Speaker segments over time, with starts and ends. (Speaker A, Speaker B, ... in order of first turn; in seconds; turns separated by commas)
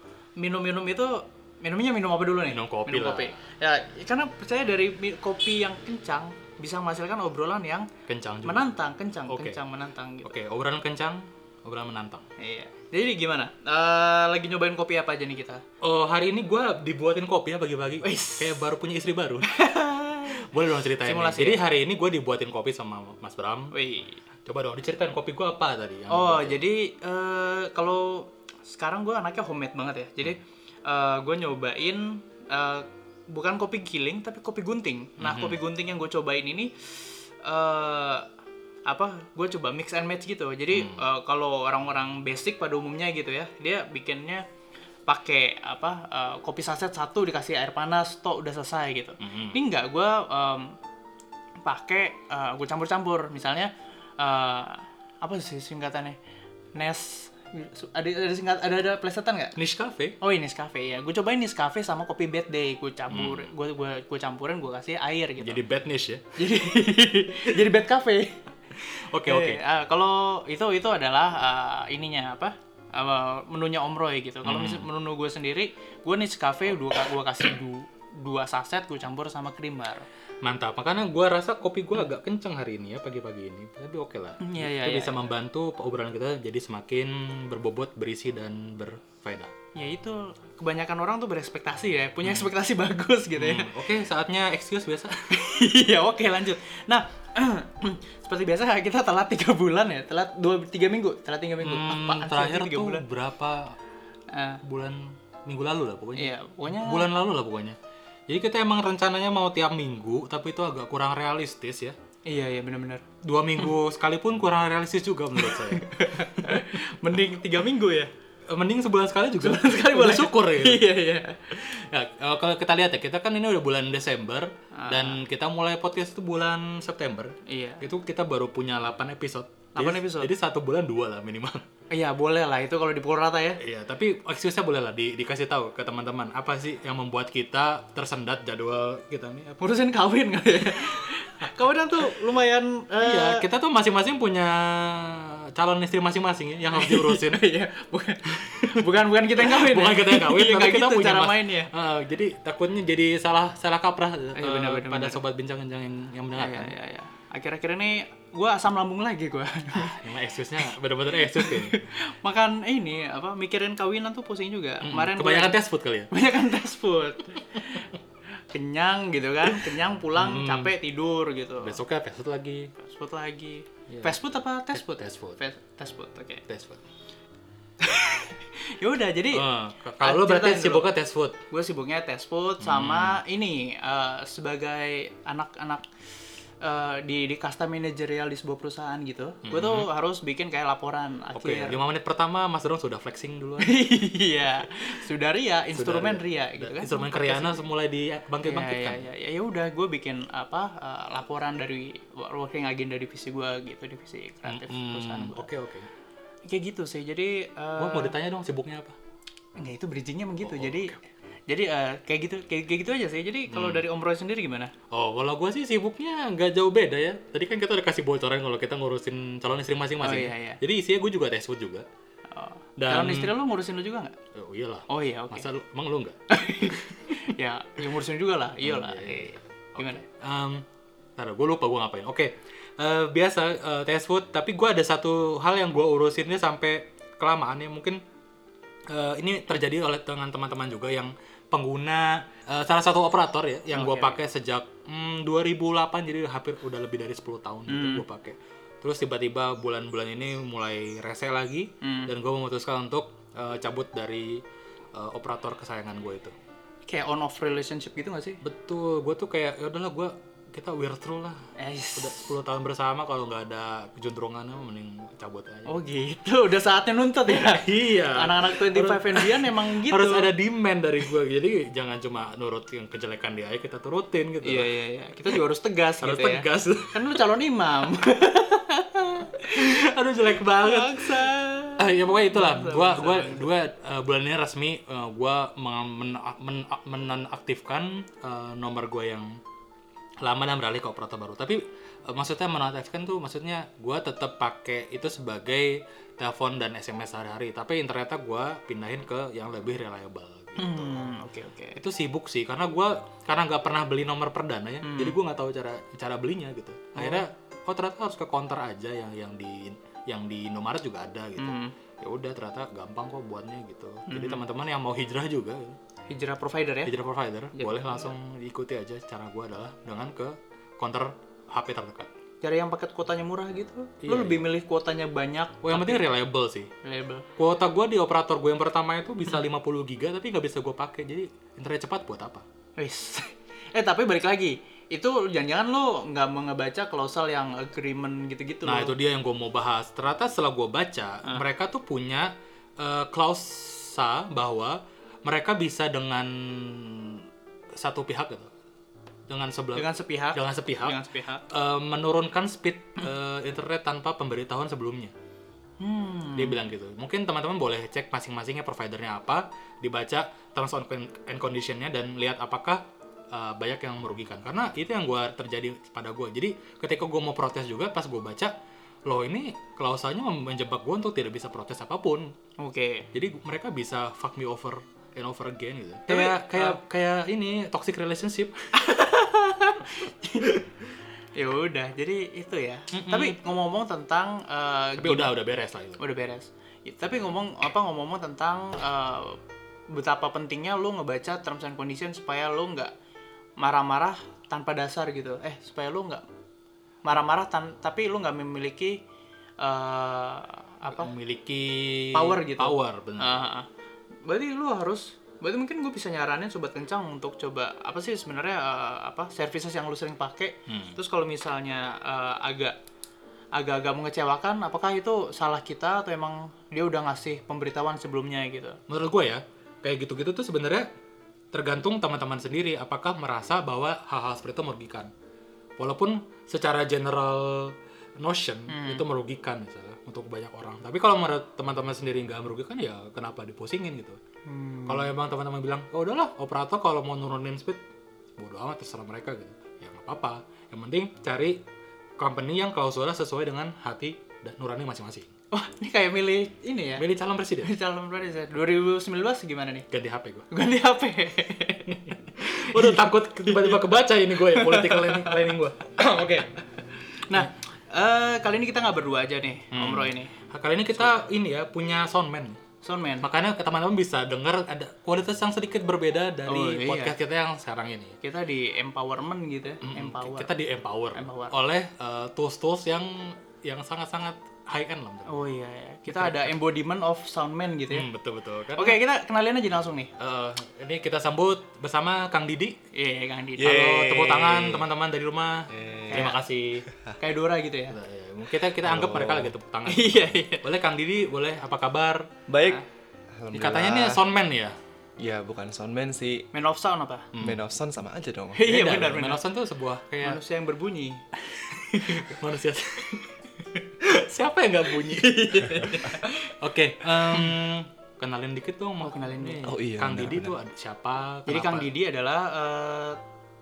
Speaker A: 0.4-7.9, Speaker B: 2.5-3.3, Speaker B: 8.1-8.7, Speaker A: 8.4-10.3, Speaker B: 9.3-9.6, Speaker B: 10.2-12.2, Speaker A: 12.4-15.6, Speaker B: 15.8-19.5, Speaker A: 18.0-18.6, Speaker A: 19.4-20.5, Speaker B: 20.4-23.8, Speaker A: 21.0-21.6, Speaker A: 23.7-24.2, Speaker B: 24.4-26.6, Speaker A: 26.1-38.2, Speaker B: 35.2-35.6, Speaker A: 38.9-44.4, Speaker B: 40.7-41.1, Speaker A: 45.1-50.7, Speaker B: 49.2-49.6, Speaker A: 51.6-56.2, Speaker A: 56.7-59.5, Speaker B: 59.5-60.1, Speaker A: 60.2-65.6, Speaker B: 63.1-63.5, Speaker B: 65.4-66.2, Speaker A: 66.3-68.4, Speaker B: 69.1-69.6, Speaker A: 69.2-80.1, Speaker B: 74.4-74.9, Speaker B: 80.4-89.5, Speaker A: 84.4-85.1, Speaker A: 89.7-93.7, Speaker B: 92.2-92.5, Speaker B: 93.3-95.4, Speaker A: 95.3-103.0, Speaker B: 101.6-103.8, Speaker A: 104.3-104.6, Speaker B: 104.6-107.8, Speaker A: 106.2-107.1, Speaker B: 108.3-112.0, Speaker A: 112.2-113.0, Speaker B: 113.2-116.8, Speaker A: 115.4-118.1, Speaker B: 118.5-120.9, Speaker A: 119.4-121.4, Speaker B: 121.5-131.6, Speaker A: 124.7-125.2, Speaker A: 127.5-127.8, Speaker A: 129.8-130.3, Speaker A: 131.9-133.6, Speaker B: 133.6-139.6, Speaker A: 139.6-143.4, Speaker B: 143.0-147.4, Speaker A: 146.7-151.7, Speaker B: 148.3-148.8, Speaker B: 149.3-156.7, Speaker A: 154.3-155.2, Speaker A: 156.3-160.0, Speaker B: 159.8-161.8, Speaker A: 161.1-165.6, Speaker B: 164.8-166.1, Speaker A: 166.1-167.9, Speaker A: 168.5-171.8, Speaker B: 170.2-170.7, Speaker B: 171.6-172.7, Speaker A: 172.8-176.4, Speaker B: 173.9-174.2, Speaker B: 174.7-175.4, Speaker B: 176.5-176.8, Speaker A: 177.8-179.4, Speaker B: 179.3-181.4, Speaker A: 180.0-180.9, Speaker A: 181.5-185.8, Speaker B: 182.6-183.2, Speaker A: 186.6-191.8, Speaker B: 189.4-189.9, Speaker B: 191.3-193.8, Speaker A: 193.6-197.6, Speaker B: 195.7-199.1, Speaker A: 198.4-205.5, Speaker B: 204.4-205.9, Speaker A: 206.4-208.1, Speaker B: 207.8-208.9, Speaker A: 209.6-210.9, Speaker B: 210.4-210.9, Speaker A: 211.5-214.7, Speaker B: 213.5-213.8, Speaker B: 214.9-221.8, Speaker A: 220.0-220.6, Speaker A: 222.3-224.1, Speaker B: 222.8-223.3, Speaker B: 224.3-226.8, Speaker A: 224.9-225.5, Speaker A: 226.3-230.0, Speaker B: 228.6-230.6, Speaker B: 231.2-238.0, Speaker B: 238.9-254.4, Speaker A: 243.7-244.2, Speaker A: 247.7-248.0, Speaker A: 251.8-252.1, Speaker B: 254.9-256.3, Speaker A: 256.9-258.4, Speaker B: 258.4-261.4, Speaker A: 261.6-262.3, Speaker B: 261.9-265.8, Speaker A: 265.7-270.3, Speaker B: 267.3-274.7, Speaker A: 274.4-283.5, Speaker B: 276.0-277.1, Speaker B: 279.5-289.3, Speaker B: 290.2-301.1, Speaker A: 300.6-301.8, Speaker B: 301.8-315.8, Speaker A: 304.8-305.2, Speaker A: 306.9-307.2, Speaker A: 311.4-311.7, Speaker A: 314.1-314.4, Speaker A: 316.1-316.9, Speaker B: 316.9-322.1, Speaker A: 317.5-318.1, Speaker A: 322.4-326.1, Speaker B: 324.0-324.5, Speaker B: 325.6-326.7, Speaker A: 326.8-327.2, Speaker B: 327.4-332.4, Speaker A: 332.8-338.9, Speaker B: 338.6-347.2, Speaker B: 347.8-348.5, Speaker B: 349.3-355.1, Speaker A: 349.7-351.4, Speaker A: 355.8-356.6, Speaker B: 356.3-368.5, Speaker B: 369.0-372.3, Speaker A: 372.6-373.1, Speaker B: 373.1-378.6, Speaker A: 376.1-376.8, Speaker A: 378.7-380.6, Speaker A: 381.4-385.3, Speaker B: 382.9-383.4, Speaker B: 385.0-386.0, Speaker A: 386.0-389.4, Speaker A: 389.9-392.9, Speaker A: 393.6-396.2, Speaker A: 397.0-399.0, Speaker A: 399.6-401.1, Speaker B: 401.0-403.4, Speaker A: 402.1-403.7, Speaker A: 404.2-412.8, Speaker B: 410.7-411.0, Speaker A: 413.5-418.8, Speaker B: 418.9-420.9, Speaker B: 421.5-425.1, Speaker B: 425.8-434.2, Speaker A: 428.7-429.0, Speaker A: 434.4-435.1, Speaker B: 434.9-437.8, Speaker B: 438.4-441.6, Speaker B: 442.2-445.3, Speaker A: 445.5-447.1, Speaker B: 447.0-447.7, Speaker A: 447.6-449.9, Speaker B: 449.9-450.5, Speaker A: 450.5-453.8, Speaker B: 451.9-456.4, Speaker A: 454.4-456.5, Speaker A: 457.3-460.3, Speaker B: 459.7-462.6, Speaker A: 462.8-463.3, Speaker B: 463.2-468.2, Speaker A: 466.5-467.1, Speaker A: 468.2-470.5, Speaker B: 469.8-475.4, Speaker A: 471.1-471.5, Speaker A: 475.3-478.1, Speaker B: 476.1-476.5, Speaker B: 477.9-479.0, Speaker A: 478.8-480.1, Speaker B: 480.2-482.8, Speaker A: 482.9-484.4, Speaker B: 483.6-486.9, Speaker C: 483.6-484.8, Speaker C: 485.7-486.3, Speaker A: 486.1-486.4, Speaker A: 487.2-487.9, Speaker B: 487.9-492.3, Speaker C: 488.8-489.5, Speaker A: 489.9-490.6, Speaker C: 492.5-492.8, Speaker C: 493.4-494.2, Speaker B: 493.5-494.8, Speaker C: 495.2-496.5, Speaker A: 496.5-497.3, Speaker B: 497.3-497.6, Speaker C: 497.4-498.6, Speaker A: 498.5-499.4, Speaker B: 498.6-500.4, Speaker A: 500.2-501.2, Speaker B: 501.5-503.3, Speaker A: 501.9-502.4, Speaker B: 504.0-511.9, Speaker A: 504.9-506.5, Speaker A: 507.3-507.5, Speaker A: 509.0-509.7, Speaker C: 509.6-510.5, Speaker A: 511.5-513.2